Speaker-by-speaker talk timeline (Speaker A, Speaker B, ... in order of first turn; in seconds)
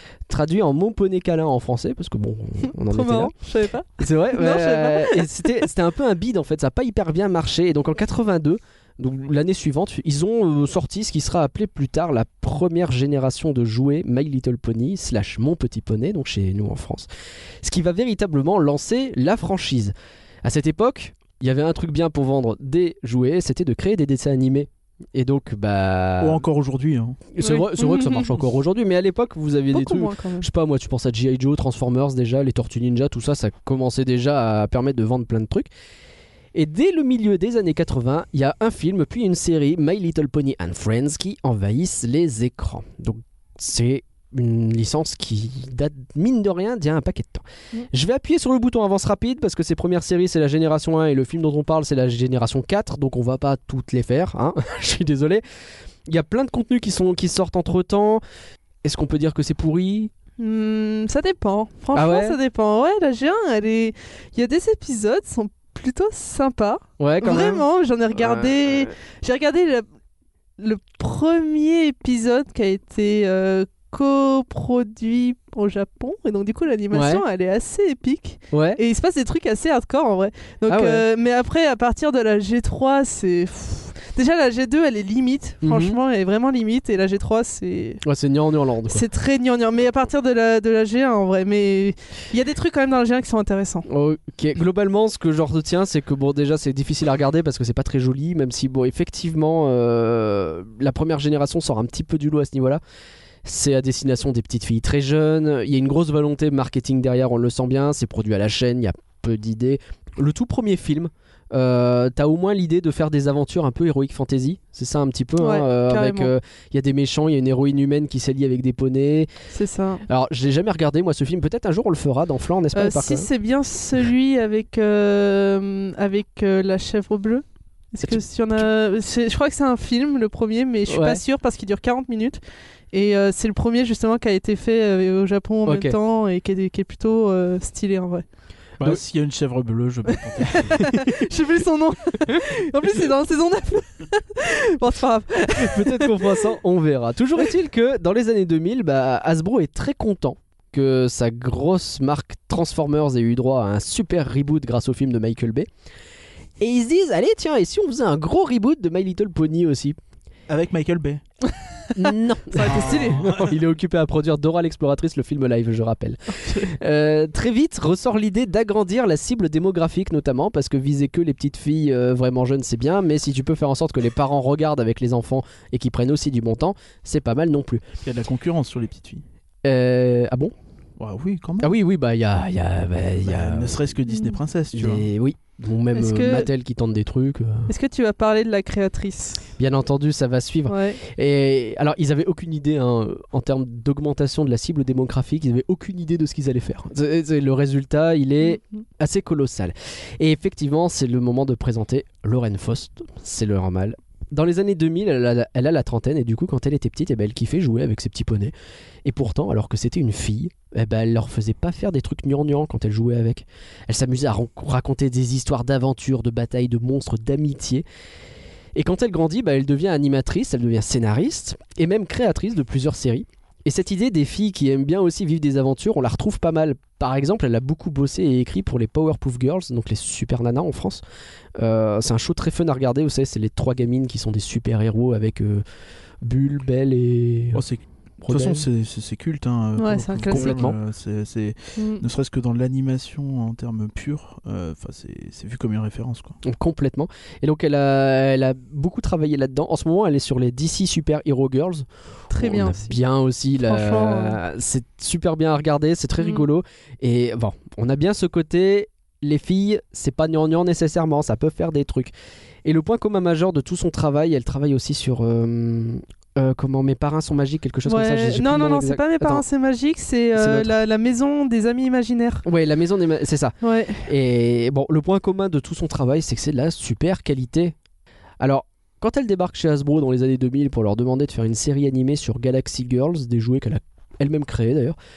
Speaker A: 0.3-3.3, 4.0-17.1, 17.6-26.4, 27.3-35.7, 36.5-55.4, 56.0-58.2, 58.8-60.1, 61.9-62.4, 67.0-68.9, 76.9-77.2, 78.5-78.8, 80.7-81.0, 85.6-86.0, 88.0-89.0, 93.9-102.8, 103.4-119.3, 120.1-123.3, 128.0-128.7, 130.9-131.2, 135.7-136.0, 145.6-155.7, 156.6-160.0, 161.9-177.9, 179.6-180.5, 181.6-183.9, 184.7-187.7, 189.6-208.5, 209.0-217.8, 218.7-231.0, 231.6-235.6, 236.2-237.6, 238.2-238.7, 240.3-240.8, 246.4-262.1, 262.6-269.4, 270.3-270.7, 272.4-277.7, 278.4-285.0
Speaker B: 2.9-5.4, 27.4-28.3, 29.7-30.5, 60.4-69.8, 70.6-88.0, 88.9-93.9, 115.4-116.3, 119.5-120.0, 122.7-132.4, 132.9-138.2, 140.7-146.4, 162.5-163.2, 166.3-166.7, 184.1-184.4, 185.9-186.5, 187.7-189.4, 190.7-191.0, 239.8-240.6, 241.8-242.0, 252.3-252.9, 253.6-254.4, 256.2-256.5, 267.8-272.4, 273.6-274.1
Speaker C: 26.2-27.2, 138.8-140.9, 160.5-161.2, 162.6-163.3, 178.0-179.2, 181.0-181.7, 183.2-185.1, 237.5-246.4